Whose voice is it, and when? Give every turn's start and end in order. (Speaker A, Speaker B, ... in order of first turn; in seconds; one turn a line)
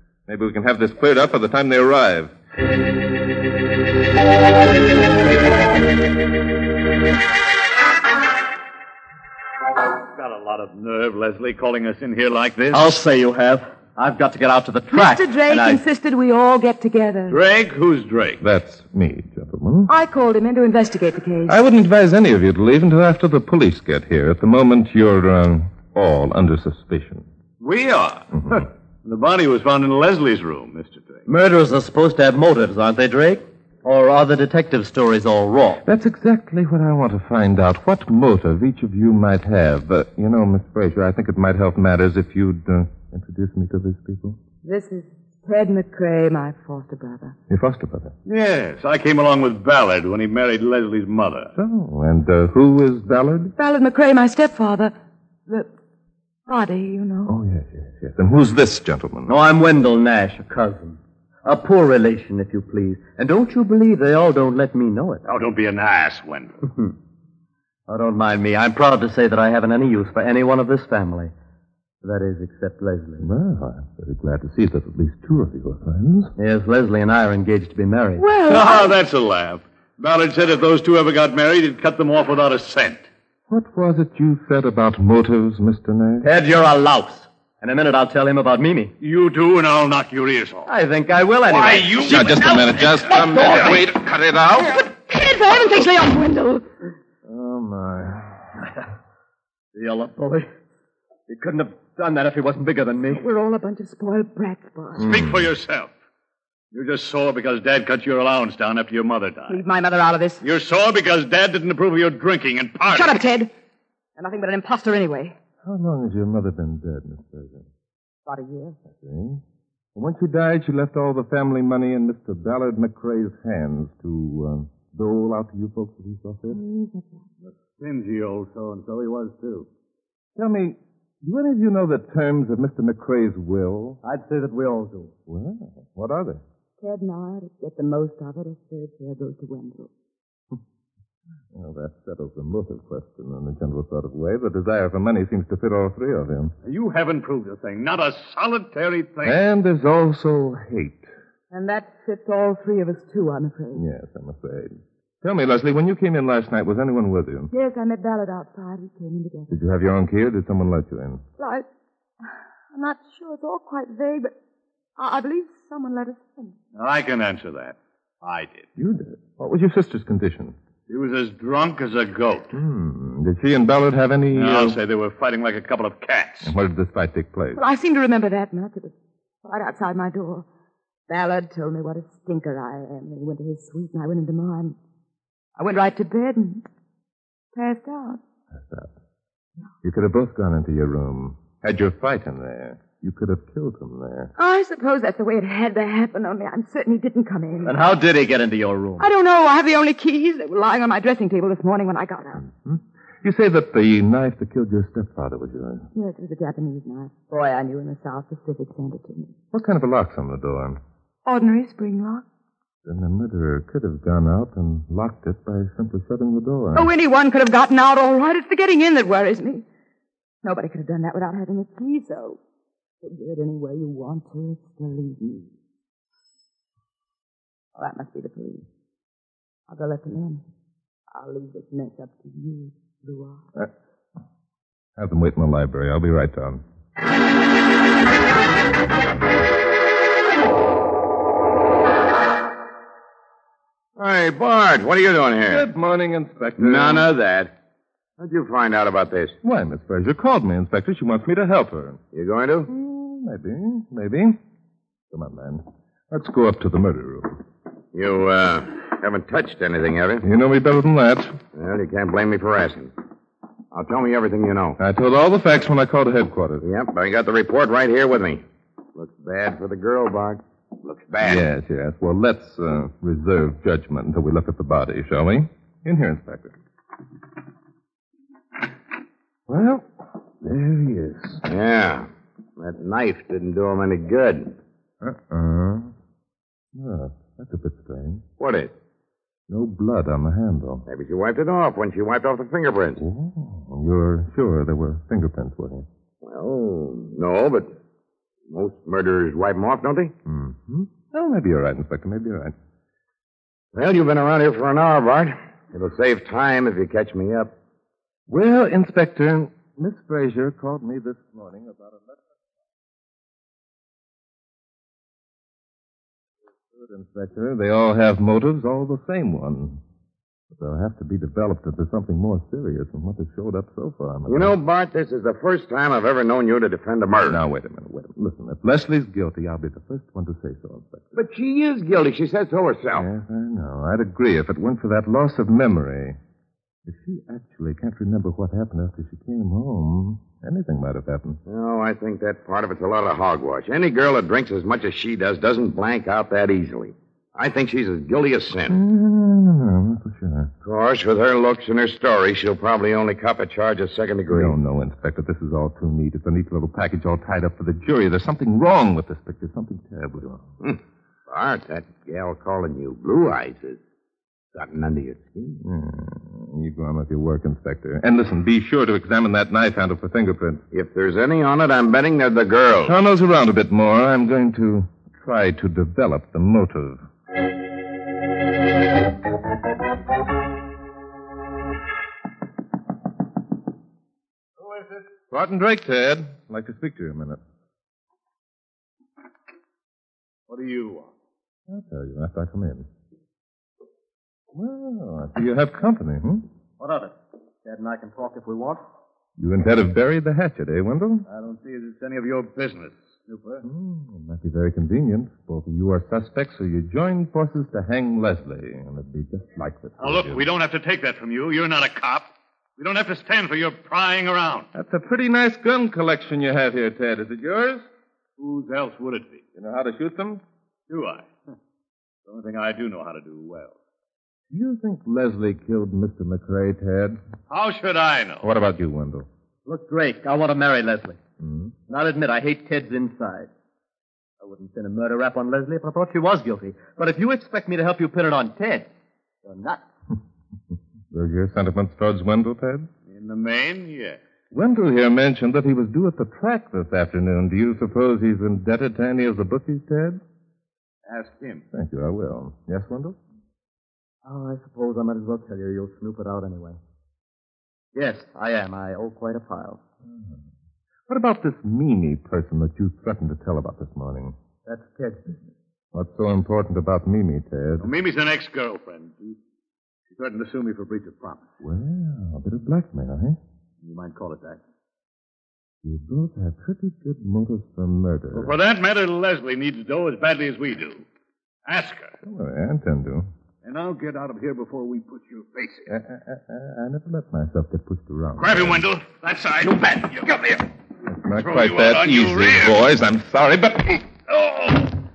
Speaker A: 0.3-2.3
Speaker B: 10.1-12.9
Speaker C: 12.7-15.8
Speaker D: 14.9-17.4
Speaker B: 17.3-18.4
Speaker A: 18.4-19.9
Speaker D: 19.9-21.6
Speaker A: 21.5-27.2
Speaker B: 27.6-31.2
Speaker A: 28.3-28.6
Speaker C: 31.3-35.8
Speaker A: 35.8-44.4
Speaker D: 44.6-47.4
Speaker A: 47.5-48.1
Speaker B: 48.2-51.5
Speaker A: 51.5-53.5
Speaker D: 53.6-54.9
Speaker D: 56.5-57.3
Speaker A: 57.2-59.3
Speaker C: 59.3-65.2
Speaker B: 65.2-66.5
Speaker C: 67.9-71.3
Speaker C: 72.0-73.3
Speaker A: 73.2-76.3
Speaker C: 76.4-78.2
Speaker D: 78.2-78.9
Speaker B: 78.5-83.1
Speaker A: 83.5-86.3
Speaker C: 86.2-88.9
Speaker B: 89.0-90.7
Speaker C: 90.7-92.1
Speaker B: 91.5-94.4
Speaker A: 92.0-94.2
Speaker D: 94.6-96.7
Speaker A: 97.2-98.4
Speaker C: 99.7-100.5
Speaker C: 101.3-103.2
Speaker D: 103.1-105.1
Speaker A: 105.0-105.5
Speaker B: 105.0-105.9
Speaker B: 106.7-109.6
Speaker D: 109.5-110.4
Speaker B: 110.4-113.1
Speaker D: 112.9-113.5
Speaker D: 114.2-115.3
Speaker A: 115.6-117.7
Speaker D: 118.2-118.8
Speaker A: 119.0-119.4
Speaker A: 119.9-126.6
Speaker D: 126.5-127.2
Speaker B: 127.4-129.7
Speaker A: 130.3-134.0
Speaker C: 134.0-135.1
Speaker A: 135.3-136.4
Speaker D: 136.8-139.9
Speaker A: 141.5-146.5
Speaker B: 146.6-149.4
Speaker A: 149.2-151.1
Speaker D: 151.5-153.8
Speaker A: 153.7-157.5
Speaker D: 157.5-159.5
Speaker A: 159.5-161.2
Speaker D: 161.4-161.7
Speaker D: 162.7-164.3
Speaker D: 165.0-166.6
Speaker B: 166.7-168.7
Speaker A: 168.8-170.6
Speaker B: 170.9-172.5
Speaker A: 172.5-174.8
Speaker B: 174.3-176.5
Speaker A: 176.4-177.6
Speaker D: 177.5-180.4
Speaker D: 181.1-184.8
Speaker D: 185.6-186.6
Speaker D: 187.5-188.2
Speaker A: 188.5-188.9
Speaker A: 189.8-194.3
Speaker D: 194.4-197.8
Speaker C: 197.6-199.1
Speaker D: 199.0-202.4
Speaker A: 202.4-205.9
Speaker D: 205.9-209.3
Speaker A: 209.5-210.8
Speaker D: 211.2-212.2
Speaker A: 212.8-216.9
Speaker D: 216.7-219.6
Speaker D: 220.4-222.4
Speaker D: 223.0-225.5
Speaker D: 227.8-228.6
Speaker D: 229.7-230.4
Speaker D: 231.1-233.4
Speaker A: 235.0-236.6
Speaker E: 244.0-245.6
Speaker A: 245.4-247.1
Speaker E: 246.6-247.5
Speaker E: 248.2-249.4
Speaker A: 249.4-252.0
Speaker E: 252.1-252.7
Speaker A: 252.7-254.4
Speaker A: 255.1-257.4
Speaker E: 257.9-260.2
Speaker A: 260.2-261.4
Speaker E: 261.5-262.9
Speaker E: 263.7-264.8
Speaker A: 264.8-266.6
Speaker E: 266.6-268.4
Speaker E: 268.9-271.4
Speaker A: 271.2-276.5
Speaker A: 279.5-279.9
Speaker A: 280.4-281.4
Speaker E: 281.4-284.6
Speaker A: 285.0-285.9
Speaker A: 286.7-288.2
Speaker E: 288.4-288.7
Speaker A: 289.5-290.9
Speaker E: 290.9-293.0
Speaker A: 293.0-295.9
Speaker E: 296.2-297.7
Speaker E: 298.5-300.1
Speaker A: 300.2-302.5
Speaker E: 303.7-307.5
Speaker A: 308.3-312.2
Speaker A: 316.7-319.8
Speaker A: 320.5-324.6
Speaker E: 324.3-327.4
Speaker A: 327.3-331.2
Speaker E: 331.1-333.1
Speaker A: 332.9-336.2
Speaker A: 336.8-341.4
Speaker E: 341.4-348.8
Speaker A: 348.7-350.5
Speaker E: 350.6-354.5
Speaker A: 354.3-360.5
Speaker E: 360.6-363.8
Speaker E: 364.5-365.6
Speaker A: 365.6-370.6
Speaker E: 370.7-372.9
Speaker A: 372.8-377.0
Speaker B: 384.6-385.0
Speaker A: 385.3-387.4
Speaker B: 390.5-391.1
Speaker A: 391.7-392.9
Speaker A: 394.5-396.4
Speaker C: 396.8-398.8
Speaker A: 399.4-401.3
Speaker B: 401.3-403.6
Speaker A: 403.6-410.4
Speaker B: 410.0-414.7
Speaker A: 414.7-417.9
Speaker B: 418.4-419.4
Speaker A: 419.6-420.4
Speaker B: 420.9-421.3
Speaker B: 422.3-423.7
Speaker A: 424.5-427.2
Speaker B: 427.5-428.5
Speaker A: 428.4-429.3
Speaker C: 429.6-431.2
Speaker A: 431.4-431.7
Speaker C: 431.9-433.5
Speaker C: 434.4-438.9
Speaker C: 439.4-439.8
Speaker A: 441.1-442.9
Speaker B: 443.1-444.2
Speaker A: 444.5-450.2
Speaker B: 451.1-451.6
Speaker A: 451.7-453.2
Speaker C: 454.2-456.8
Speaker C: 457.9-459.8
Speaker A: 461.1-464.4
Speaker C: 464.6-465.3
Speaker A: 465.9-467.9
Speaker B: 467.8-469.4
Speaker B: 470.1-471.4
Speaker A: 471.6-473.4
Speaker B: 473.8-474.6
Speaker A: 475.8-478.5
Speaker B: 478.3-481.0
Speaker B: 481.6-482.1
Speaker A: 482.2-483.3
Speaker B: 483.6-485.9
Speaker A: 485.9-488.8
Speaker B: 488.4-490.7
Speaker A: 491.1-494.1
Speaker B: 491.4-492.8
Speaker B: 494.3-494.9